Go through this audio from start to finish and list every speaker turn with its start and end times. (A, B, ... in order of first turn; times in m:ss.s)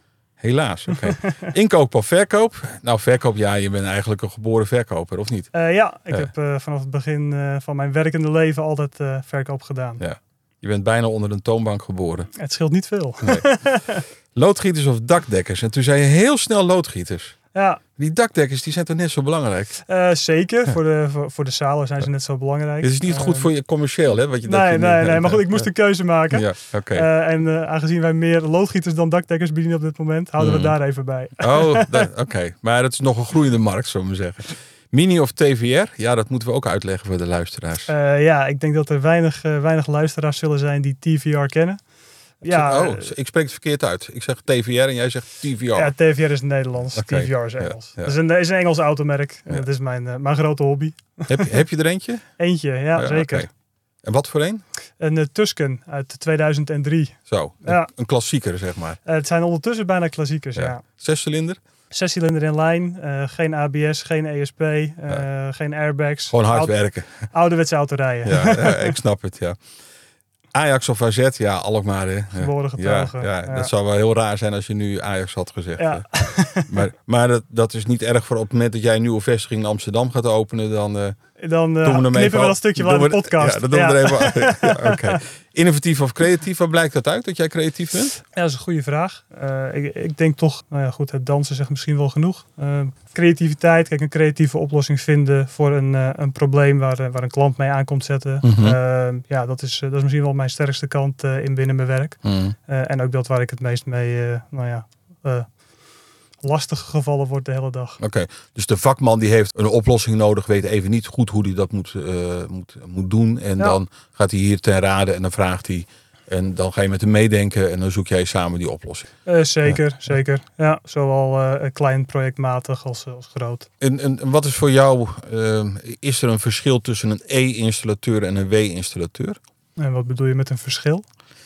0:00.4-0:05.5 A
0:00.9-0:01.5 B
0:05.5-0:10.0 B
0:10.0-0:12.3 A
0:12.4-0:14.0 B
0:14.4-0:17.4 A
0:17.5-0:17.8 B
0:18.0-0:19.8 A
0:19.9-0:23.5 B
0:22.8-0:25.7 A
0:24.5-0:32.1 B
0:26.3-0:27.1 A
0:30.4-0:30.8 A
0:31.4-0:37.9 A
0:37.9-0:41.8 B
0:42.4-0:43.1 B
0:42.5-0:45.9 A
0:45.8-0:51.6 B
0:47.0-0:48.2 A
0:51.3-0:52.3 A
0:52.4-0:53.5 B
0:53.0-0:53.5 A
0:54.0-0:54.6 A
0:55.0-0:57.9 B
0:57.3-0:59.0 A
0:59.0-1:00.8 B
1:00.6-1:01.6 A
1:01.9-1:06.8 B
1:06.3-1:07.3 A
1:07.3-1:09.0 B
1:08.2-1:09.6 A
1:10.5-1:16.1 A
1:12.4-1:13.7 B
1:15.8-1:16.8 B
1:16.7-1:21.2 A
1:21.4-1:25.2 B
1:21.8-1:28.2 A
1:28.3-1:45.5 B
1:38.4-1:38.8 A
1:42.2-1:42.6 A
1:46.4-1:48.0 B
1:48.0-1:59.1 A
1:59.3-2:03.7 B
2:03.8-2:09.4 A
2:09.8-2:11.0 B